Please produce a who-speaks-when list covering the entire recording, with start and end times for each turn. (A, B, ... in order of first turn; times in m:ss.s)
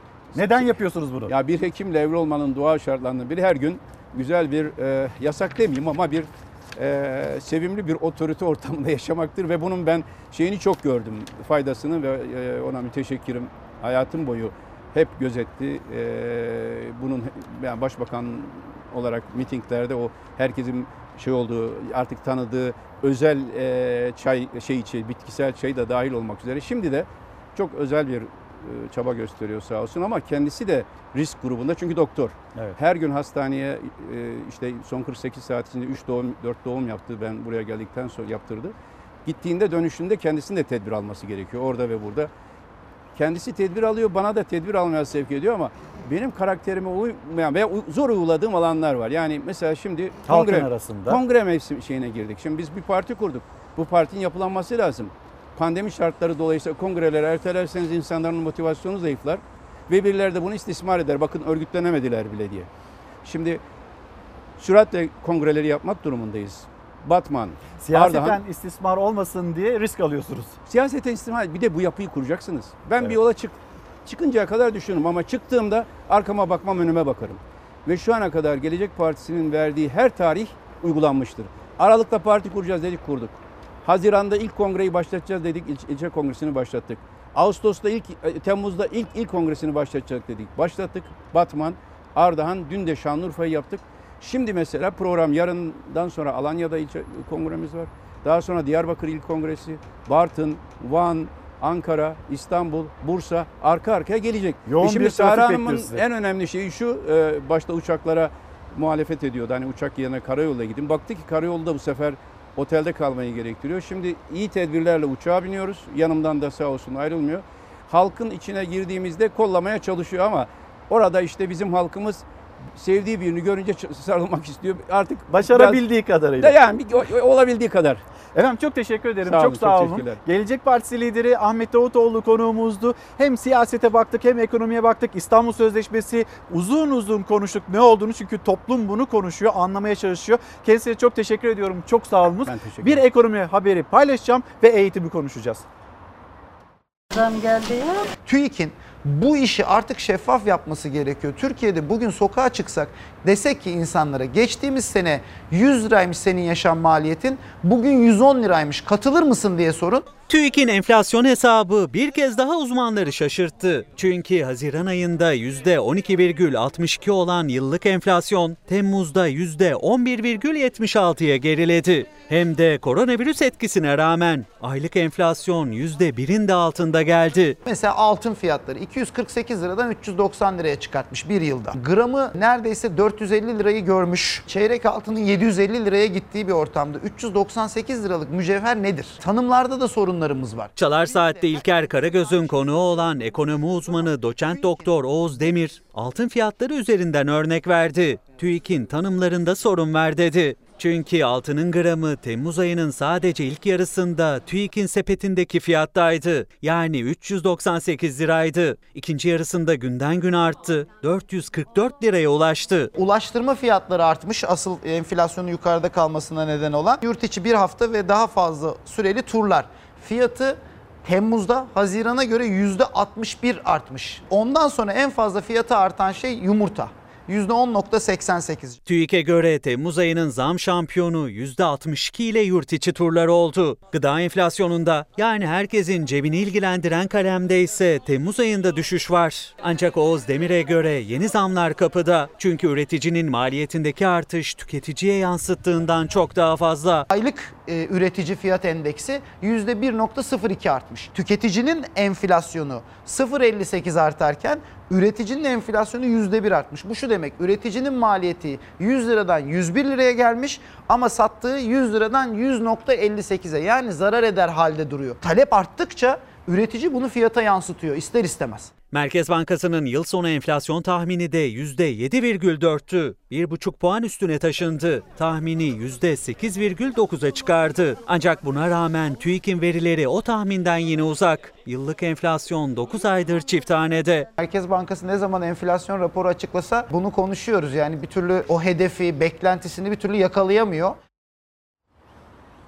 0:00.3-0:01.3 A
0:00.3-0:38.7 B
0:39.2-0:42.3 B
0:43.1-1:02.7 B
0:50.3-0:51.2 A
1:03.2-1:03.6 B
1:04.6-1:08.4 B
1:07.8-1:10.6 A
1:10.7-2:02.2 B
1:44.7-1:46.0 A
2:02.8-2:05.8 B
2:05.3-2:06.6 A
2:06.4-2:08.0 B
2:08.3-2:25.6 A
2:09.2-2:10.2 B
2:22.4-2:23.0 B
2:28.3-2:40.0 C
2:40.2-2:57.6 D
2:57.8-3:10.5 C
3:10.7-3:32.9 D
3:33.1-3:40.5 C
3:41.1-3:48.5 C
3:48.8-4:07.0 D
4:07.3-4:15.2 C
4:17.1-4:22.0 C
4:22.6-4:23.2 C
4:25.3-4:28.6 C
4:28.9-4:44.3 D
4:44.4-4:45.7 C
4:46.3-4:50.2 C